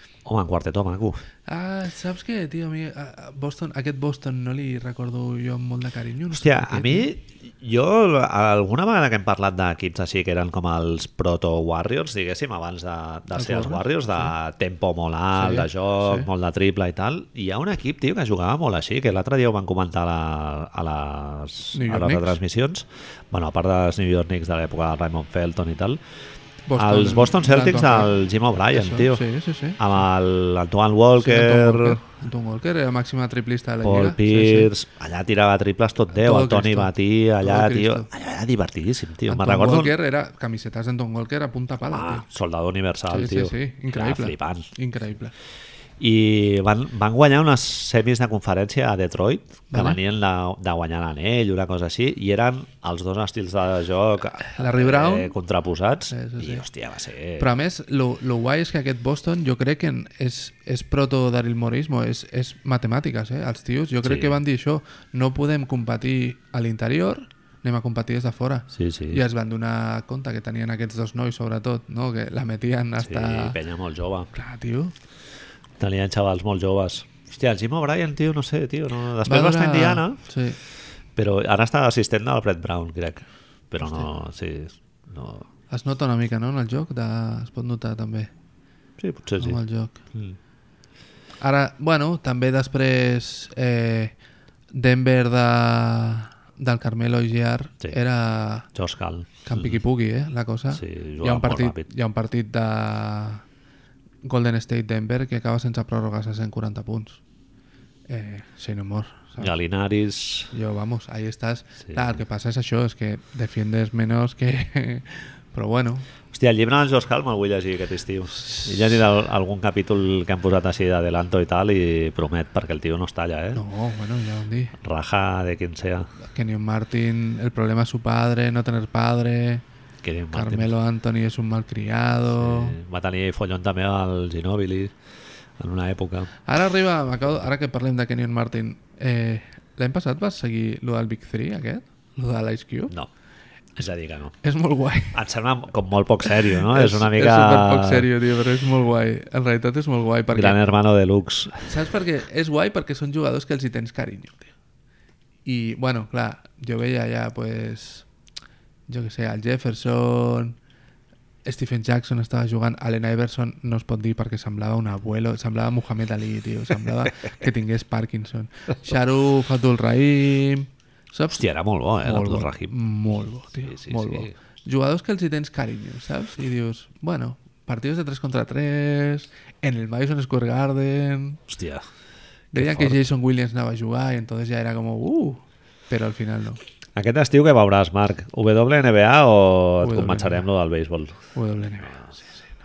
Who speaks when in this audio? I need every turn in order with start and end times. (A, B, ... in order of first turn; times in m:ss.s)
0:00.2-0:01.2 A
0:01.5-0:07.1 B
0:06.3-0:26.0 A
0:13.3-0:14.3 B
0:15.3-0:16.3 B
0:21.7-0:22.4 B
0:26.7-0:28.1 B
0:26.8-0:29.2 A
0:28.7-0:29.9 B
0:29.8-0:32.0 A
0:31.2-0:34.7 B
0:33.8-0:39.9 A
0:36.1-0:38.1 B
0:39.3-0:42.2 B
0:41.9-0:44.7 A
0:43.1-0:45.3 B
0:46.0-0:57.5 A
0:49.7-0:50.0 B
0:54.3-0:55.3 B
0:56.1-0:56.6 B
0:57.4-1:13.6 B
1:04.0-1:04.4 A
1:08.7-1:09.2 A
1:13.0-1:14.3 A
1:14.3-1:14.9 B
1:15.8-1:20.2 A
1:19.2-1:20.6 B
1:21.2-1:25.5 A
1:23.8-1:24.1 B
1:25.7-1:28.3 B
1:29.0-1:29.6 A
1:29.4-1:30.0 B
1:31.4-1:34.1 B
1:34.7-1:38.7 B
1:38.7-1:39.8 A
1:39.4-1:43.4 B
1:40.7-1:41.9 A
1:44.2-1:47.2 B
1:48.1-1:49.5 B
1:49.4-1:50.5 A
1:50.5-1:56.1 B
1:51.8-1:52.2 A
1:56.3-2:03.6 A
1:58.4-1:58.7 B
2:03.5-2:04.8 B
2:04.8-2:06.1 A
2:06.2-2:09.6 B
2:10.0-2:10.7 A
2:10.3-2:12.8 B
2:12.4-2:14.9 A
2:15.6-2:16.3 A
2:16.4-2:22.9 B
2:23.8-2:24.4 A
2:24.4-2:25.2 B
2:25.1-2:28.1 A
2:26.5-2:30.6 B
2:30.3-2:31.7 A
2:31.6-2:34.5 B
2:35.4-2:38.1 B
2:38.9-2:40.6 B
2:41.4-2:51.4 B
2:51.3-2:52.7 A
2:52.0-3:01.4 B
2:53.6-2:54.3 A
3:01.5-3:01.8 A
3:02.5-3:03.0 A
3:02.5-3:06.6 B
3:06.9-3:11.2 A
3:09.8-3:10.4 B
3:11.3-3:12.5 B